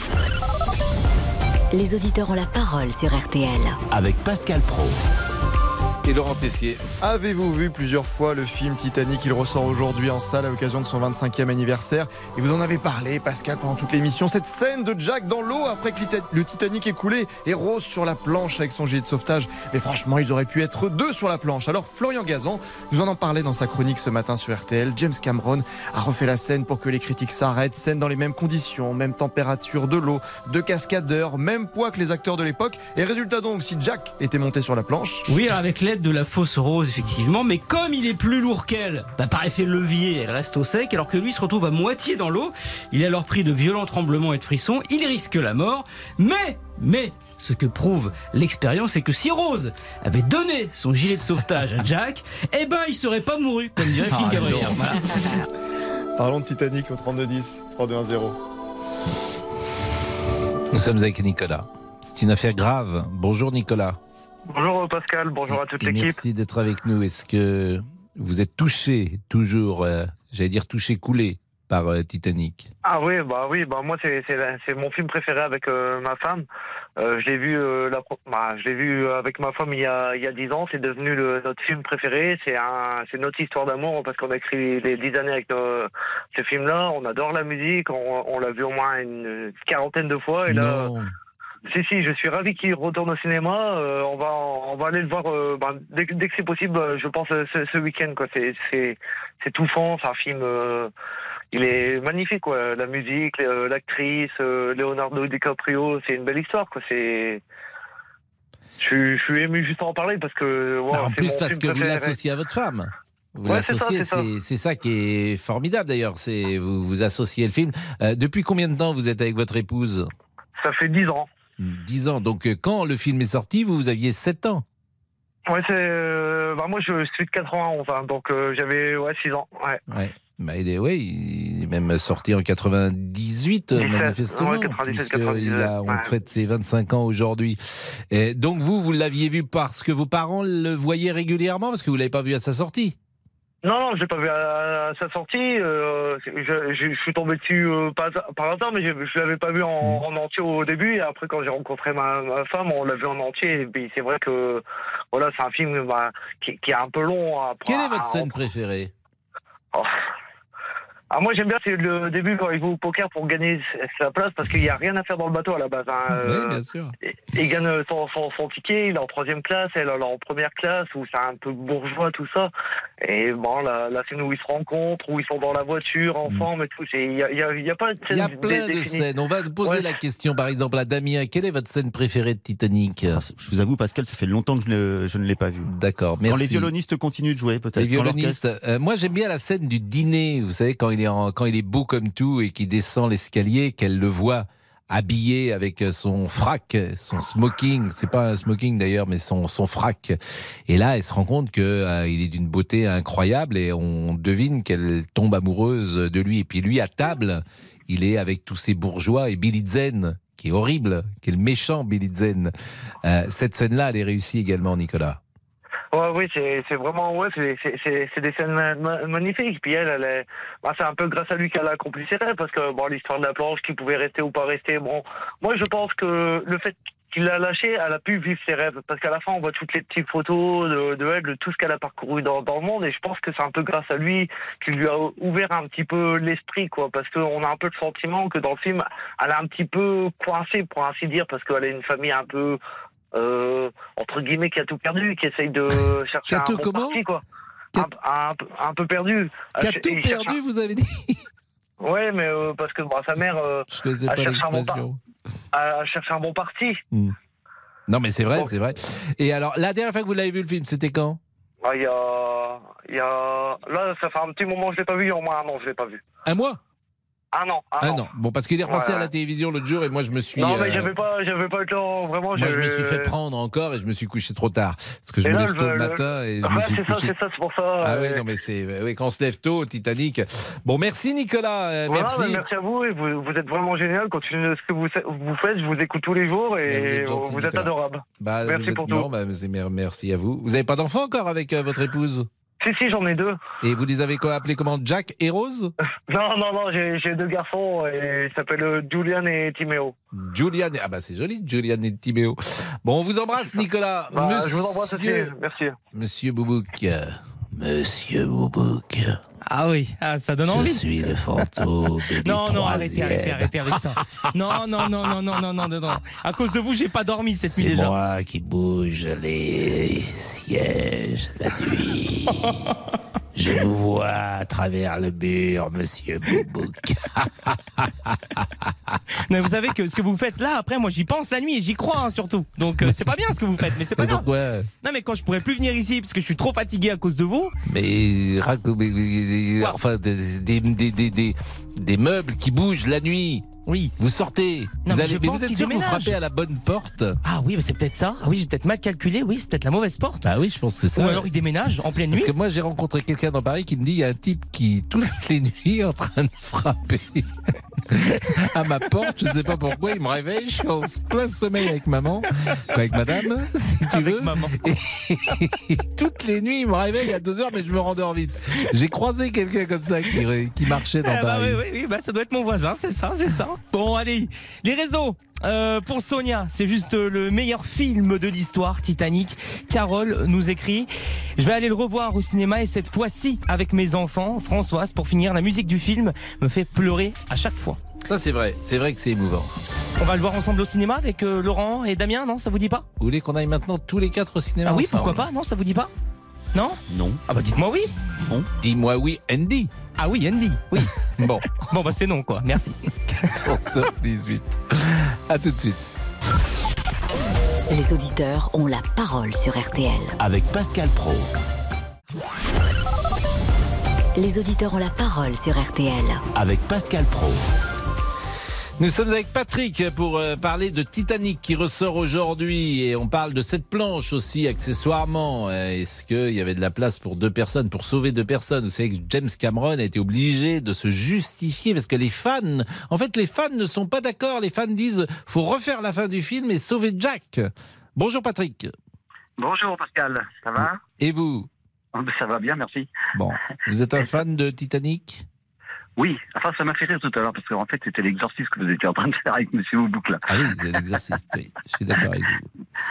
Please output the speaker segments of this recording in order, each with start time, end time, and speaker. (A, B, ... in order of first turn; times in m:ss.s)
0:01.7-0:03.8 A
0:03.9-0:05.0 B
0:06.0-0:06.8 C
0:07.0-0:35.3 D
0:35.3-0:55.4 E
0:54.1-0:55.0 C
0:56.2-0:58.4 D
1:00.7-1:04.0 C
1:04.5-1:06.2 F
1:05.5-1:12.7 C
1:12.8-1:16.4 F
1:17.0-1:30.9 F
1:30.5-1:31.1 C
1:31.7-1:40.9 F
1:41.5-1:47.4 F
1:48.8-1:52.2 F
1:50.9-2:00.1 C
1:53.4-1:54.3 F
2:00.6-2:01.3 F
2:01.6-2:04.6 C
2:05.5-2:09.8 F
2:09.9-2:23.0 C
2:13.8-2:16.1 F
2:23.6-2:38.4 F
2:37.7-2:38.9 C
2:41.1-2:52.5 F
2:46.1-2:46.9 C
2:53.0-2:59.1 F
2:58.1-3:03.2 C
2:59.6-3:00.0 F
3:03.1-3:05.7 G
3:05.6-3:06.7 C
3:06.2-3:08.4 G
3:07.8-3:20.2 C
3:20.7-3:32.5 C
3:33.0-3:35.2 C
3:35.9-4:02.6 F
4:03.1-4:07.2 F
4:06.3-4:07.0 C
4:07.8-4:10.4 F
4:09.6-4:11.3 C
4:11.8-4:14.8 F
4:13.7-4:15.0 C
4:15.5-4:16.8 F
4:17.9-4:21.2 C
4:21.6-4:26.0 F
4:26.3-4:26.6 C
4:27.3-4:28.1 F
4:27.8-4:30.9 C
4:28.6-4:29.1 F
4:30.4-4:33.1 F
4:32.4-4:37.1 C
4:35.2-4:38.2 F
4:37.8-4:42.4 C
4:41.9-4:49.1 F
4:46.7-4:52.3 C
4:52.6-4:53.4 F
4:53.6-4:55.7 C
4:56.1-5:00.0 F
5:00.1-5:05.3 C
5:04.1-5:05.8 F
5:06.0-5:09.2 C
5:09.4-5:10.8 H
5:10.5-5:14.3 C
5:12.2-5:18.0 H
5:17.5-5:22.5 C
5:23.4-5:29.0 C
5:29.3-5:34.3 H
5:33.9-5:34.7 C
5:34.8-5:37.6 H
5:37.7-5:47.2 C
5:43.6-5:43.9 H
5:44.8-5:46.2 H
5:47.2-5:50.2 H
5:50.2-5:51.3 C
5:50.9-5:52.3 H
5:52.1-5:57.3 C
5:57.9-6:11.6 C
6:03.9-6:04.6 H
6:11.0-6:27.8 H
6:28.1-6:29.5 C
6:30.0-6:32.9 H
6:33.0-6:35.2 C
6:34.6-6:35.9 H
6:36.5-6:37.9 H
6:36.9-6:37.2 G
6:38.6-6:39.7 C
6:40.0-6:41.0 H
6:41.2-6:41.7 C
6:41.6-6:43.4 H
6:43.4-6:45.8 C
6:47.7-6:50.2 A
6:50.2-6:51.3 B
6:54.2-6:56.2 A
6:56.4-6:57.4 B
6:58.8-7:18.7 C
7:19.4-7:20.8 I
7:20.6-7:21.5 C
7:21.9-7:22.9 I
7:23.2-7:25.2 C
7:26.0-7:30.3 I
7:30.3-7:32.5 C